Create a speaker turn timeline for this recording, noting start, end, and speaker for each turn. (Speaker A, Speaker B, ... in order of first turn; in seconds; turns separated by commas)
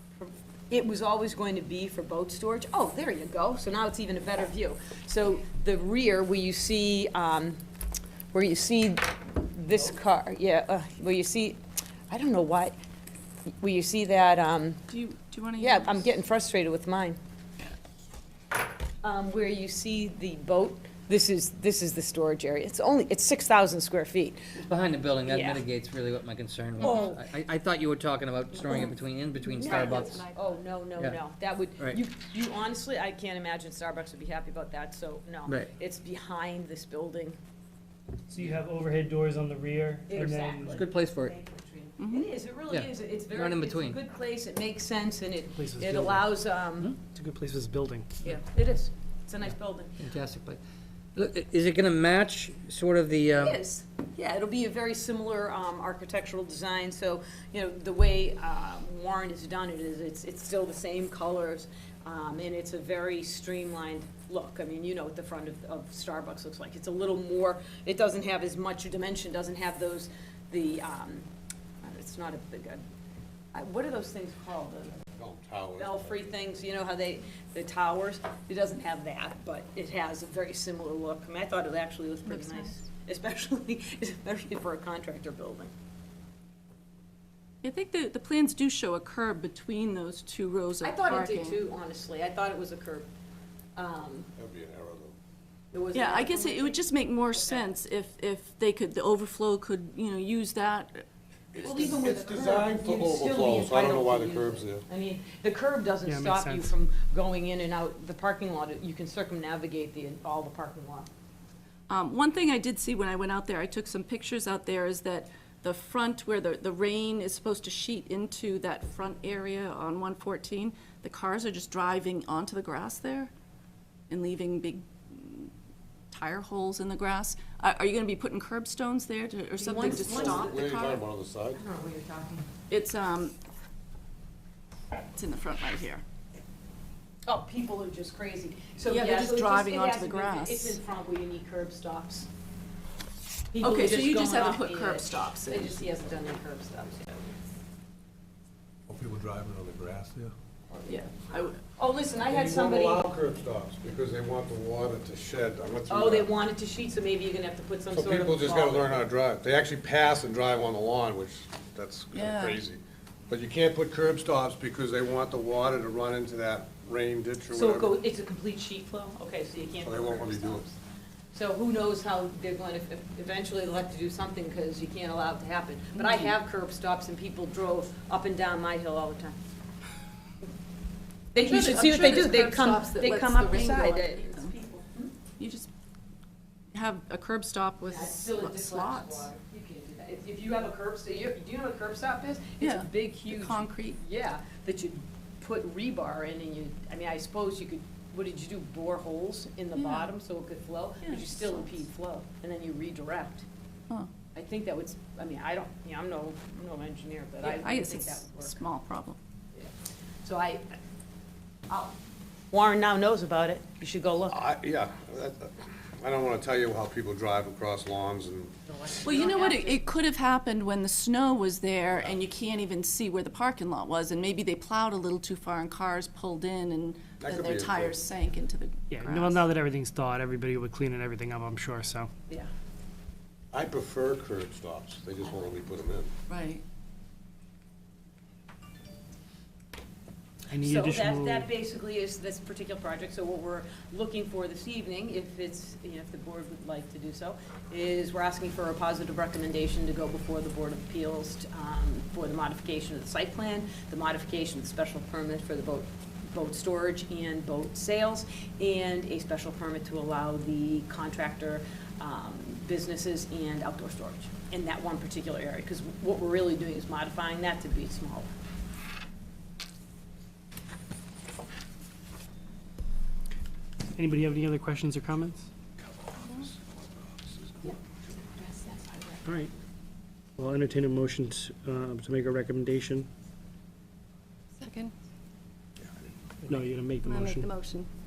Speaker A: 0.2-7.6, Speaker A: 8.3-12.7, Speaker A: 13.6-14.8, Speaker B: 14.9-16.0, Speaker A: 15.6-17.2, Speaker A: 19.0-24.4, Speaker C: 24.7-30.2, Speaker A: 25.2-25.6, Speaker A: 26.8-27.2, Speaker A: 29.5-37.4, Speaker D: 29.6-30.6, Speaker E: 38.3-40.8, Speaker A: 40.1-47.0, Speaker C: 40.7-41.4, Speaker B: 42.0-42.3, Speaker C: 42.7-44.0, Speaker E: 45.5-46.3, Speaker E: 47.0-48.1, Speaker A: 48.2-50.1, Speaker C: 50.0-50.6, Speaker C: 51.1-53.6, Speaker A: 53.4-71.3, Speaker A: 71.8-72.8, Speaker A: 73.5-75.0, Speaker F: 75.2-76.2, Speaker A: 75.8-85.7, Speaker B: 87.6-91.6, Speaker A: 90.8-93.1, Speaker A: 93.8-94.3, Speaker F: 94.4-95.2, Speaker A: 95.7-97.7, Speaker B: 95.9-101.0, Speaker F: 101.6-104.9, Speaker B: 101.6-101.9, Speaker A: 101.6-111.1, Speaker E: 106.1-106.7, Speaker B: 111.9-123.3, Speaker B: 124.1-125.5, Speaker B: 126.1-131.0, Speaker A: 129.6-130.7, Speaker F: 129.8-131.6, Speaker A: 131.5-132.5, Speaker B: 132.7-133.3, Speaker B: 135.2-136.0, Speaker A: 137.3-142.3, Speaker B: 138.9-140.8, Speaker A: 143.5-147.4, Speaker B: 143.6-145.8, Speaker F: 148.9-150.3, Speaker B: 150.8-151.6, Speaker A: 151.7-153.1, Speaker F: 152.3-156.3, Speaker A: 155.9-159.0, Speaker F: 157.9-167.9, Speaker B: 162.1-162.6, Speaker A: 167.5-170.8, Speaker F: 169.8-170.6, Speaker A: 171.3-179.4, Speaker B: 176.0-176.3, Speaker A: 181.3-185.1, Speaker B: 181.4-184.5, Speaker B: 185.4-185.7, Speaker B: 186.7-189.3, Speaker A: 187.8-203.4, Speaker B: 192.6-194.0, Speaker B: 199.8-200.1, Speaker B: 201.0-201.7, Speaker A: 204.3-208.6, Speaker B: 207.4-209.2, Speaker A: 210.2-210.8, Speaker A: 211.7-212.0, Speaker A: 212.5-214.4, Speaker F: 214.3-218.5, Speaker A: 218.7-219.9, Speaker B: 219.0-229.4, Speaker F: 227.2-228.0, Speaker E: 228.9-232.1, Speaker F: 233.5-236.1, Speaker B: 236.3-236.6, Speaker E: 240.5-241.5, Speaker A: 240.5-268.3, Speaker E: 273.9-275.5, Speaker F: 275.8-278.2, Speaker A: 278.4-279.3, Speaker E: 279.2-279.5, Speaker E: 280.4-283.1, Speaker D: 284.6-284.9, Speaker E: 286.5-287.5, Speaker D: 287.0-287.9